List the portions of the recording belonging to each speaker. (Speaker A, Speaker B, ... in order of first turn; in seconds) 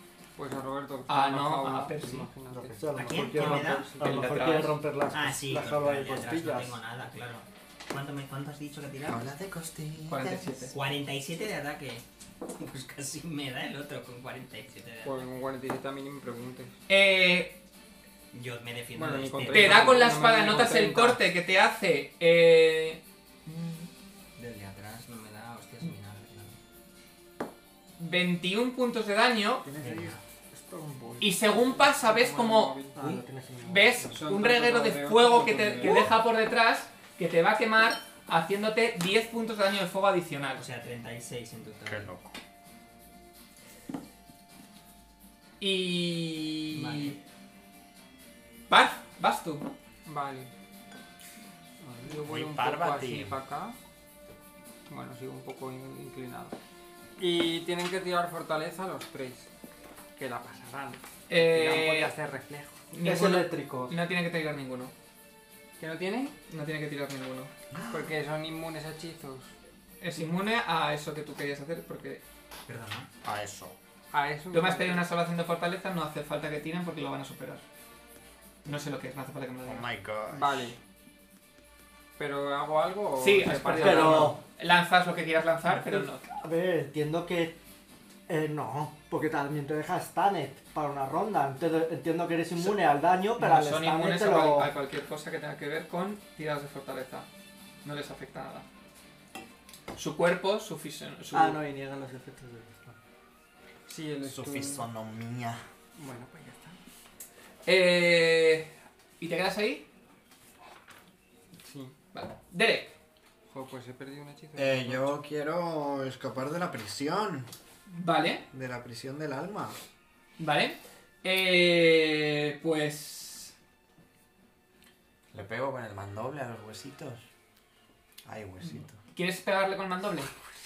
Speaker A: 0.3-4.2, 15.0-16.7, 18.9-21.2, 31.5-33.1, 34.1-36.1, 50.0-50.5, 51.8-53.8, 54.9-56.5, 57.2-59.5, 60.2-62.8, 65.8-66.3, 67.9-69.5, 74.1-75.0, 80.3-80.8, 82.2-84.3, 103.9-104.9, 106.0-106.8, 111.6-111.9, 113.5-115.1
Speaker B: 1.1-2.3, 3.4-4.8, 10.1-10.7, 16.9-17.6, 19.5-23.9, 28.0-29.6, 31.2-32.8, 33.6-40.6, 45.6-47.2, 48.7-49.7, 61.3-62.1, 62.9-64.9, 66.5-67.5, 70.0-72.2, 74.5-77.6, 78.6-79.9, 83.2-86.2, 92.6-92.8, 93.3-97.3, 97.8-98.7, 99.9-101.6, 107.7-109.8, 112.1-112.9, 117.9-118.4, 120.4-123.5, 129.0-130.3
Speaker C: 2.5-6.8, 29.6-31.3, 32.9-34.2, 63.0-63.9, 83.8-84.4, 85.7-87.6, 88.3-94.7, 101.3-103.0
Speaker D: 3.0-4.0, 5.1-9.3, 10.7-12.0, 12.6-15.2, 18.3-20.1, 24.4-26.6, 29.8-30.2, 40.5-42.1, 46.7-47.2, 72.7-73.1
Speaker E: 9.1-10.5, 41.9-42.3, 52.2-53.4, 67.7-68.1, 73.2-73.8, 79.6-80.6, 104.2-105.6, 114.5-117.5, 118.5-119.8, 125.3-127.2, 128.2-129.0